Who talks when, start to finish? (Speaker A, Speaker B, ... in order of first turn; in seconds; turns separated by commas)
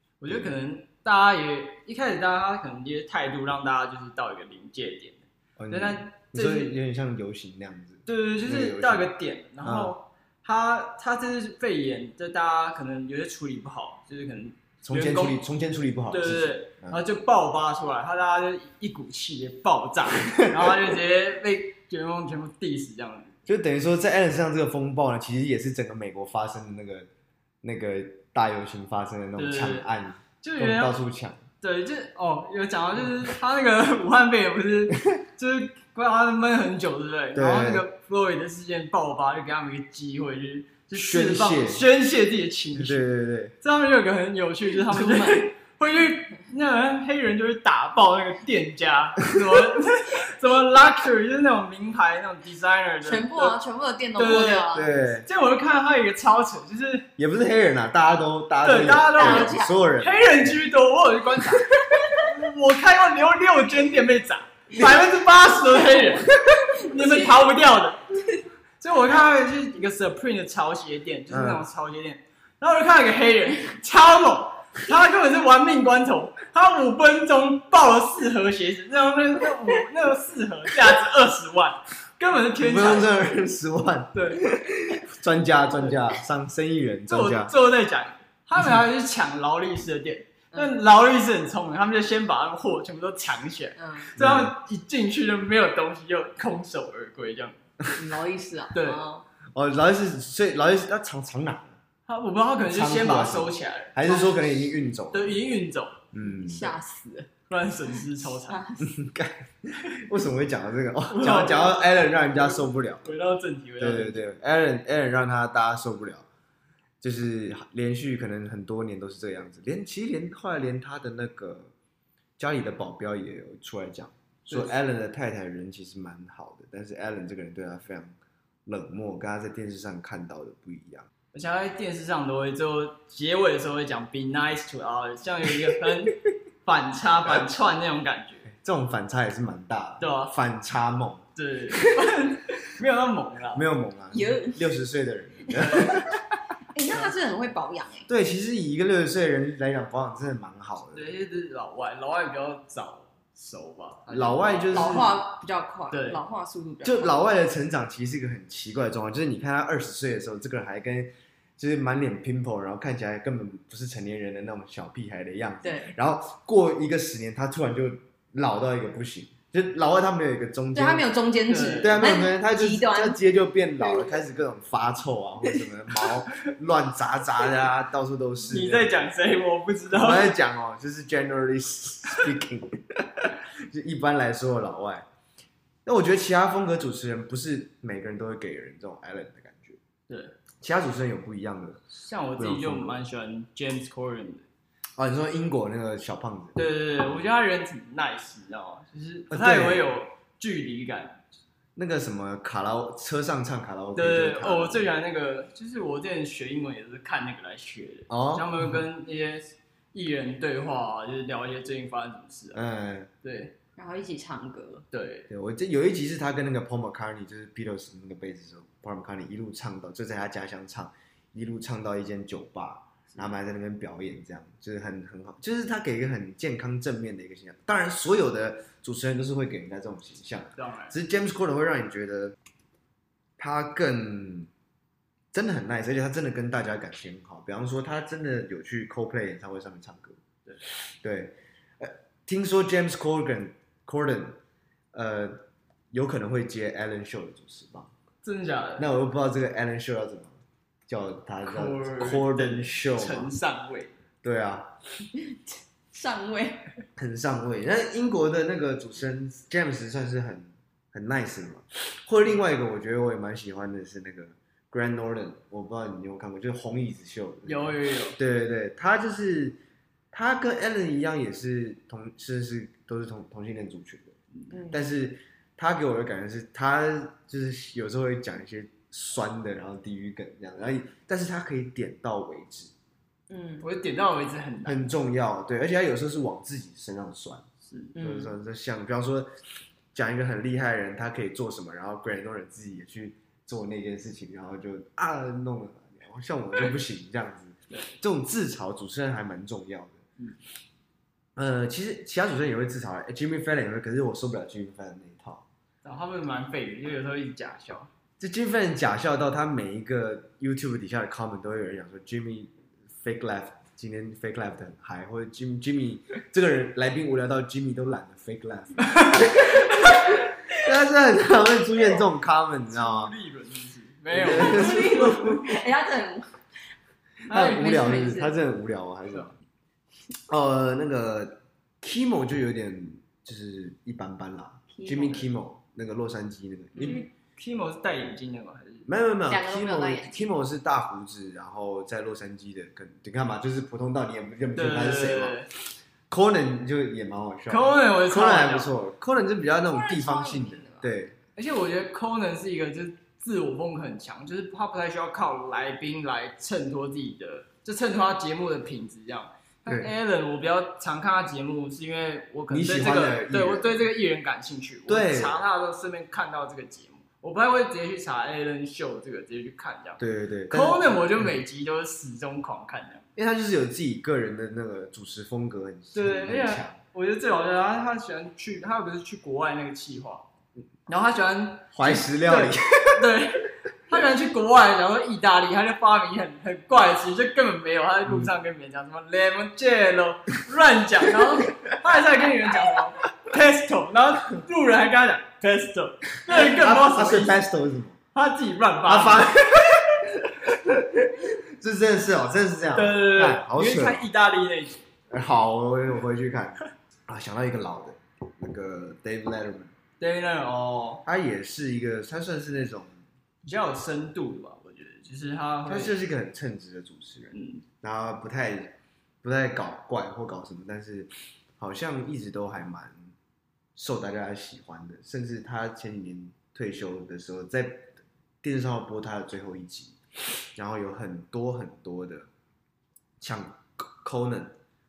Speaker A: 0.2-6.8, Speaker B: 0.3-0.6, Speaker B: 5.6-9.1, Speaker A: 8.1-15.4, Speaker B: 9.6-9.9, Speaker B: 14.8-17.0, Speaker A: 16.1-23.4, Speaker B: 23.5-27.1, Speaker B: 27.6-31.4, Speaker A: 29.4-29.9, Speaker A: 30.4-31.0, Speaker A: 31.6-43.0, Speaker B: 37.4-37.8, Speaker B: 41.0-41.8, Speaker B: 42.7-43.5, Speaker A: 43.6-53.6, Speaker C: 53.0-54.9, Speaker A: 54.2-57.1, Speaker B: 54.7-55.3, Speaker B: 57.2-60.6, Speaker A: 58.6-68.0, Speaker C: 59.2-59.8, Speaker B: 64.7-65.1, Speaker C: 66.8-67.1, Speaker A: 68.8-83.1, Speaker B: 71.3-71.6, Speaker B: 82.6-87.5, Speaker A: 84.1-84.4, Speaker A: 87.1-97.6, Speaker C: 93.8-94.1, Speaker B: 94.2-94.5, Speaker C: 98.0-99.2, Speaker A: 98.7-99.0, Speaker B: 99.5-101.8, Speaker A: 102.1-104.0, Speaker B: 102.7-105.3, Speaker A: 105.1-106.0, Speaker B: 106.1-106.7, Speaker C: 106.2-107.3, Speaker A: 107.5-108.6, Speaker C: 108.0-108.9, Speaker B: 108.8-113.1, Speaker A: 111.1-114.2, Speaker B: 113.8-116.3, Speaker B: 117.0-121.7, Speaker B: 122.4-128.2, Speaker B: 128.7-131.1, Speaker A: 131.3-138.5, Speaker B: 138.5-141.3, Speaker A: 140.0-140.3, Speaker A: 141.4-143.6, Speaker B: 143.5-146.2, Speaker C: 144.1-144.7, Speaker A: 145.5-146.0, Speaker C: 146.7-148.1, Speaker B: 148.1-151.1, Speaker A: 150.9-155.1, Speaker B: 154.1-155.2, Speaker C: 154.7-157.2, Speaker A: 155.9-156.2, Speaker B: 156.8-171.1, Speaker C: 165.6-165.9, Speaker C: 170.7-173.2, Speaker A: 171.5-172.1, Speaker B: 171.8-179.1, Speaker C: 173.8-174.2, Speaker A: 178.5-180.3, Speaker B: 179.9-185.1, Speaker B: 185.8-189.8, Speaker A: 190.1-190.4, Speaker B: 190.6-191.9, Speaker A: 191.9-194.5, Speaker B: 192.4-193.0, Speaker B: 195.0-196.6, Speaker A: 196.6-201.2, Speaker B: 199.3-199.8, Speaker B: 201.8-204.9, Speaker A: 204.0-212.6, Speaker B: 208.1-208.8, Speaker B: 212.5-213.1, Speaker A: 213.2-213.6, Speaker C: 213.8-214.8, Speaker A: 214.9-215.3, Speaker B: 215.3-232.3, Speaker A: 230.6-230.9, Speaker B: 233.4-234.5, Speaker B: 235.3-240.2, Speaker B: 240.8-244.4, Speaker B: 244.9-247.9, Speaker A: 248.2-248.9, Speaker B: 248.8-253.3, Speaker A: 251.4-254.0, Speaker B: 254.2-254.7, Speaker C: 255.1-256.7, Speaker B: 257.0-269.6, Speaker A: 267.5-268.2, Speaker B: 270.1-274.1, Speaker C: 274.5-274.8, Speaker B: 274.7-282.7, Speaker C: 283.3-283.6, Speaker A: 283.6-284.9, Speaker B: 284.6-287.4, Speaker A: 287.7-287.9, Speaker C: 288.0-288.3, Speaker B: 288.0-289.3, Speaker B: 289.9-300.0, Speaker B: 301.4-305.4, Speaker A: 305.8-307.9, Speaker B: 308.2-323.1, Speaker A: 318.9-319.5, Speaker A: 322.7-325.3, Speaker B: 324.1-325.5, Speaker C: 324.2-326.4, Speaker A: 327.3-327.7, Speaker B: 327.3-329.3, Speaker C: 327.3-328.4, Speaker B: 330.3-337.0, Speaker C: 334.7-335.2, Speaker A: 336.8-338.9, Speaker B: 338.9-345.4, Speaker C: 339.3-340.3, Speaker A: 344.6-345.5, Speaker B: 346.1-351.2, Speaker A: 347.5-348.7, Speaker C: 349.7-350.9, Speaker A: 351.4-373.1, Speaker B: 362.5-363.9, Speaker B: 364.9-365.4, Speaker B: 370.0-371.3, Speaker B: 373.2-376.8, Speaker A: 375.9-380.2, Speaker A: 380.9-397.4, Speaker B: 381.7-383.1, Speaker B: 396.2-398.0, Speaker A: 398.1-399.7, Speaker B: 398.9-404.0, Speaker A: 402.8-404.9, Speaker B: 405.1-409.7, Speaker A: 410.0-411.0, Speaker B: 411.1-412.9, Speaker A: 413.4-416.0, Speaker B: 415.7-423.1, Speaker A: 417.3-417.6, Speaker B: 423.8-430.0, Speaker B: 430.5-432.3, Speaker B: 433.2-434.6